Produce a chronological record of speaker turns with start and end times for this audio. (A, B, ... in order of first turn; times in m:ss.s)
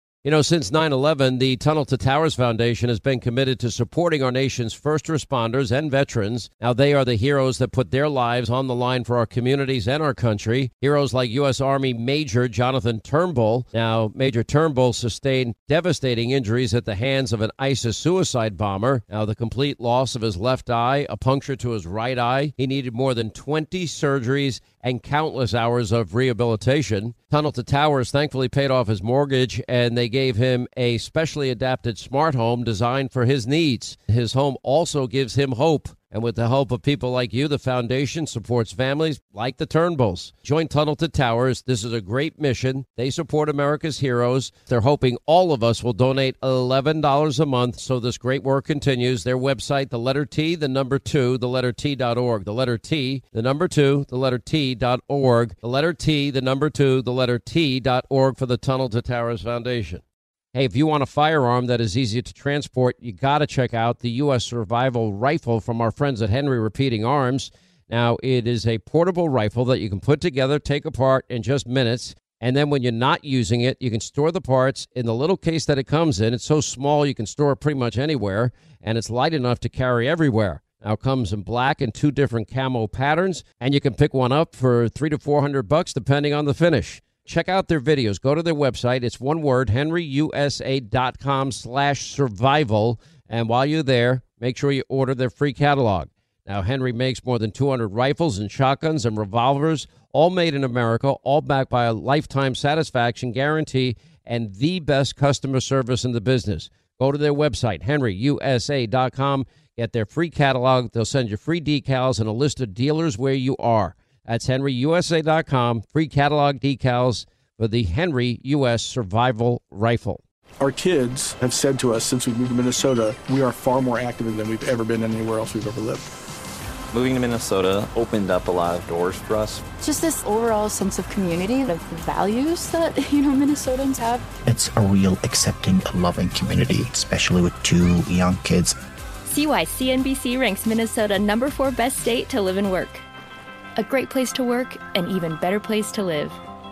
0:00.2-1:00.0 A
1:00.5-2:00.2 A
2:00.6-2:06.0 B
2:06.9-2:09.6 C
2:09.8-2:14.2 D
2:14.4-2:18.8 E
2:19.2-2:23.0 F
2:23.8-2:26.4 F